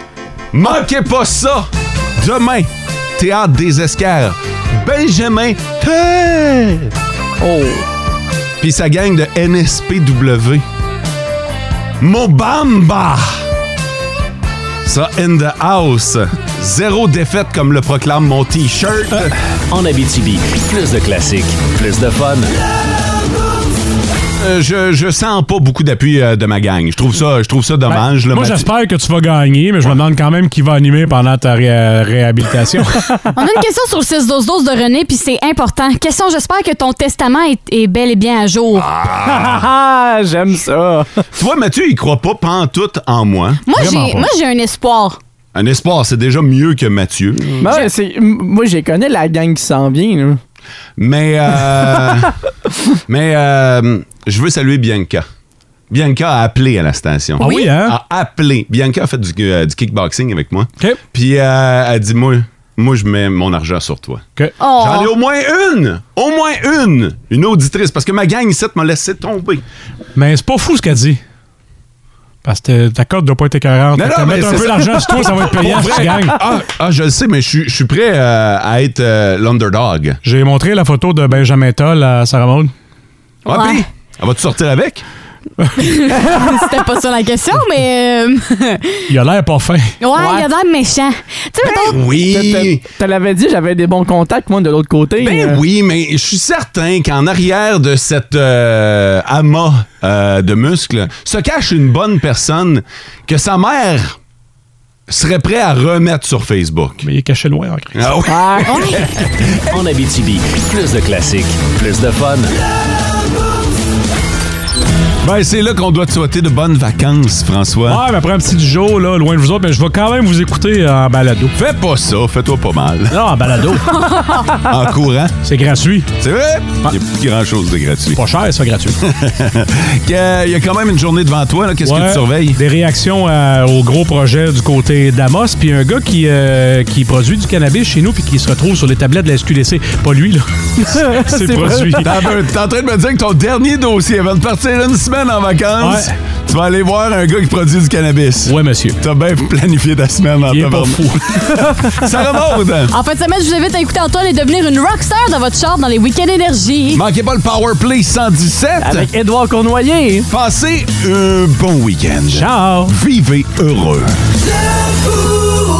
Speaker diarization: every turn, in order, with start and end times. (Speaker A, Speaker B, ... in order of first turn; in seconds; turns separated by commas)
Speaker A: 0.5-6.9, Speaker B: 7.4-7.8, Speaker A: 8.6-10.6, Speaker A: 12.0-13.4, Speaker A: 14.8-19.4, Speaker C: 19.7-22.6, Speaker A: 24.4-28.7, Speaker D: 27.9-33.0, Speaker E: 33.3-38.9, Speaker A: 38.8-39.6, Speaker B: 39.2-41.2, Speaker A: 41.3-43.6, Speaker E: 43.6-45.2, Speaker D: 43.7-44.3, Speaker A: 45.5-47.8, Speaker B: 47.6-50.4, Speaker E: 47.6-47.9, Speaker A: 51.0-52.3, Speaker A: 53.1-55.2, Speaker A: 55.9-64.2, Speaker D: 57.4-58.0, Speaker E: 57.4-57.7, Speaker E: 64.6-65.1, Speaker A: 64.8-69.6, Speaker D: 70.1-71.2, Speaker D: 72.4-76.4, Speaker A: 73.9-80.2, Speaker D: 80.2-82.7, Speaker E: 83.5-83.8, Speaker A: 83.5-85.0, Speaker E: 85.8-89.1, Speaker D: 89.1-90.5, Speaker E: 90.0-92.0, Speaker A: 91.6-92.8, Speaker B: 92.2-95.6, Speaker A: 95.2-104.2, Speaker A: 105.1-107.0, Speaker D: 107.0-108.0, Speaker A: 107.9-109.3, Speaker B: 108.3-108.9, Speaker E: 108.7-109.1, Speaker C: 109.7-112.6, Speaker A: 115.2-118.0, Speaker D: 117.9-121.5, Speaker A: 121.5-123.2, Speaker D: 123.1-124.2, Speaker E: 124.0-124.4, Speaker A: 124.6-125.4, Speaker D: 125.4-126.1, Speaker A: 126.2-128.2, Speaker D: 128.2-129.0, Speaker A: 129.0-132.6, Speaker D: 131.8-142.1, Speaker B: 141.0-142.1, Speaker A: 142.0-152.9, Speaker D: 145.8-146.1, Speaker D: 148.5-149.0, Speaker D: 150.5-151.5, Speaker E: 152.9-157.0, Speaker A: 156.9-159.1, Speaker B: 158.8-160.3, Speaker A: 160.3-164.1, Speaker D: 162.3-162.9